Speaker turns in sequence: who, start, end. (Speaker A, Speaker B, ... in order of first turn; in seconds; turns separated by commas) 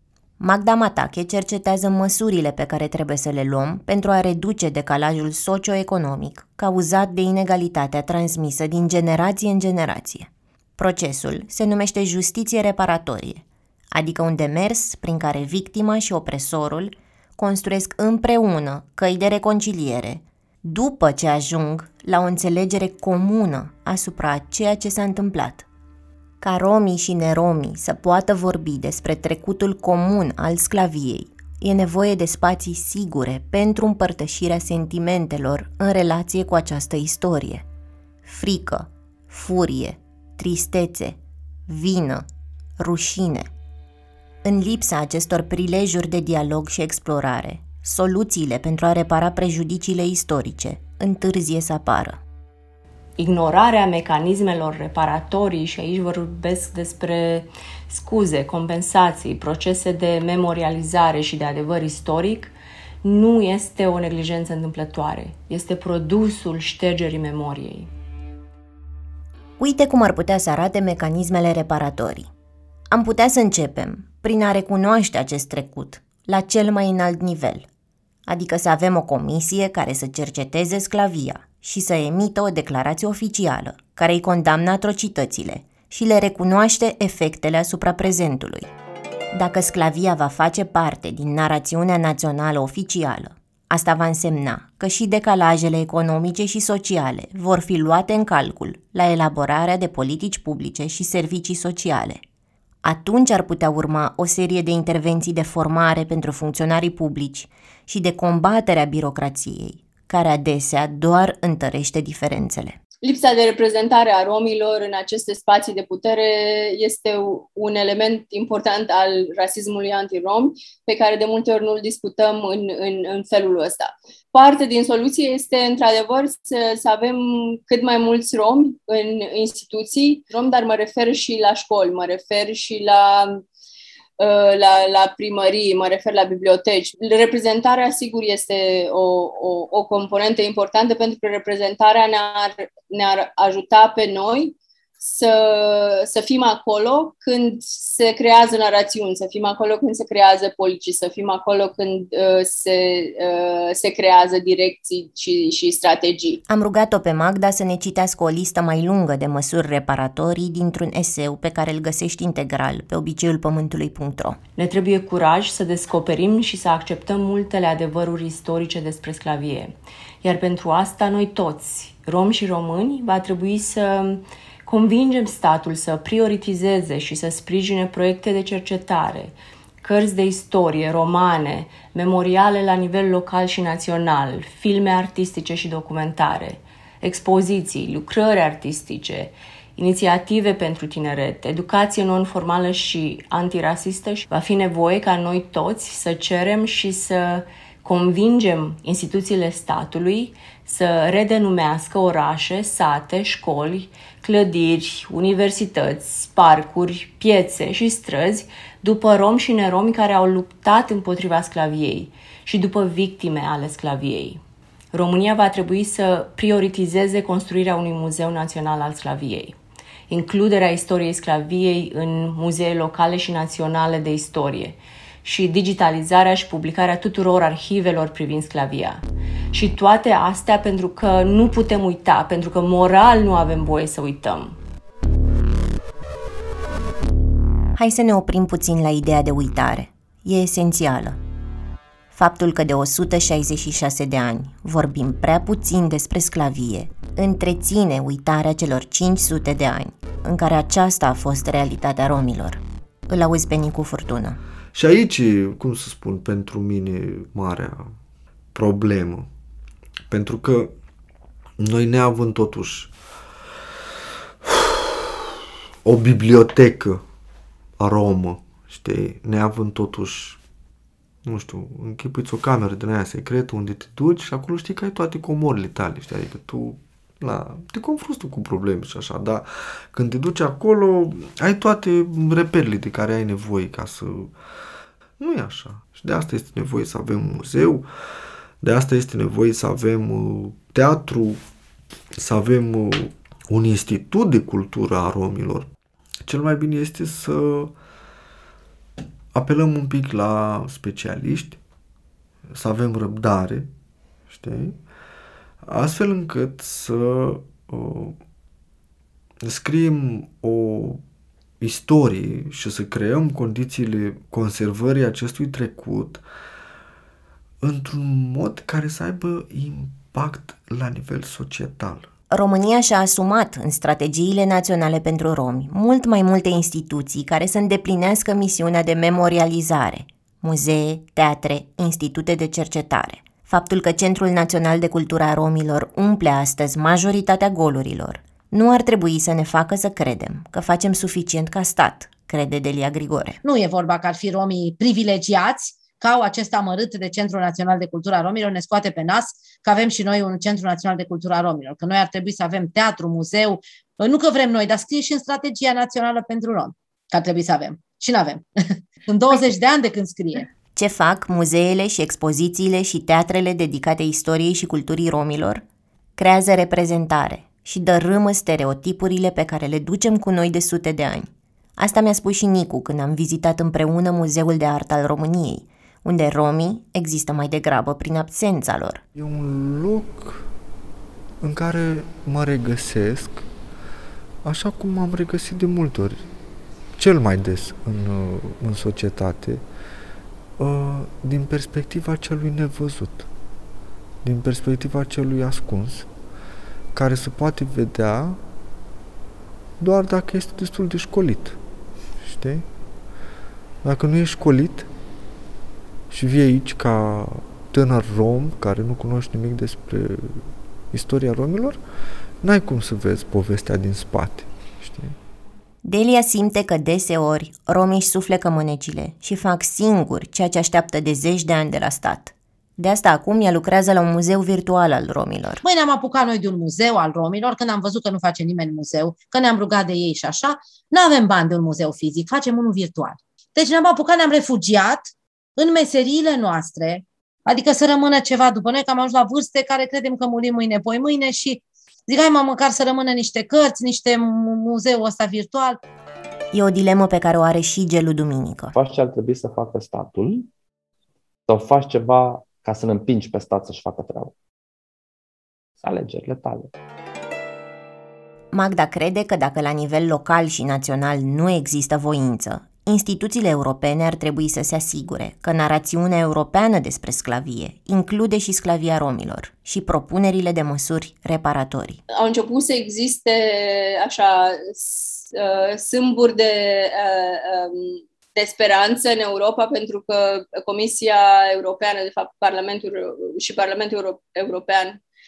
Speaker A: 0.4-25.6, Speaker A: 26.4-37.6, Speaker A: 38.2-42.2, Speaker A: 42.8-43.5, Speaker A: 44.4-52.2, Speaker B: 53.2-62.5, Speaker B: 63.0-67.9, Speaker A: 69.6-72.3, Speaker A: 72.9-77.7, Speaker A: 78.2-88.7, Speaker A: 89.3-102.2, Speaker A: 102.8-112.8, Speaker C: 113.0-133.4, Speaker C: 134.2-156.4, Speaker A: 156.5-164.4, Speaker B: 164.6-214.4, Speaker B: 214.9-219.6, Speaker B: 220.1-234.6, Speaker A: 237.8-241.2, Speaker A: 242.1-254.4, Speaker D: 254.7-257.9, Speaker D: 258.5-259.3, Speaker D: 260.1-260.7, Speaker D: 261.6-262.9, Speaker D: 264.4-264.8, Speaker D: 265.8-267.0, Speaker D: 267.8-270.4, Speaker D: 271.2-284.3, Speaker D: 285.2-287.9, Speaker D: 288.6-291.4, Speaker D: 292.1-295.7, Speaker D: 296.2-297.7, Speaker D: 299.3-301.6, Speaker D: 302.5-303.7, Speaker D: 304.3-304.8, Speaker D: 305.6-308.2, Speaker D: 309.4-311.0, Speaker D: 311.6-316.2, Speaker D: 317.6-322.1, Speaker A: 322.3-343.4, Speaker E: 343.4-358.4, Speaker E: 359.1-360.5, Speaker A: 360.8-365.6, Speaker A: 366.2-379.0, Speaker D: 379.1-380.5, Speaker D: 381.4-383.5, Speaker D: 384.4-386.3, Speaker D: 387.0-389.6, Speaker D: 390.6-393.3, Speaker D: 394.2-396.1, Speaker D: 396.9-398.4, Speaker D: 399.8-401.6, Speaker D: 402.2-402.6, Speaker D: 403.8-404.9, Speaker D: 406.1-411.8, Speaker D: 412.4-415.1, Speaker A: 415.8-425.6, Speaker E: 425.6-445.8, Speaker A: 446.5-448.7, Speaker F: 448.7-450.5, Speaker F: 451.5-454.3, Speaker F: 455.8-456.7, Speaker A: 458.5-472.0, Speaker C: 472.1-485.0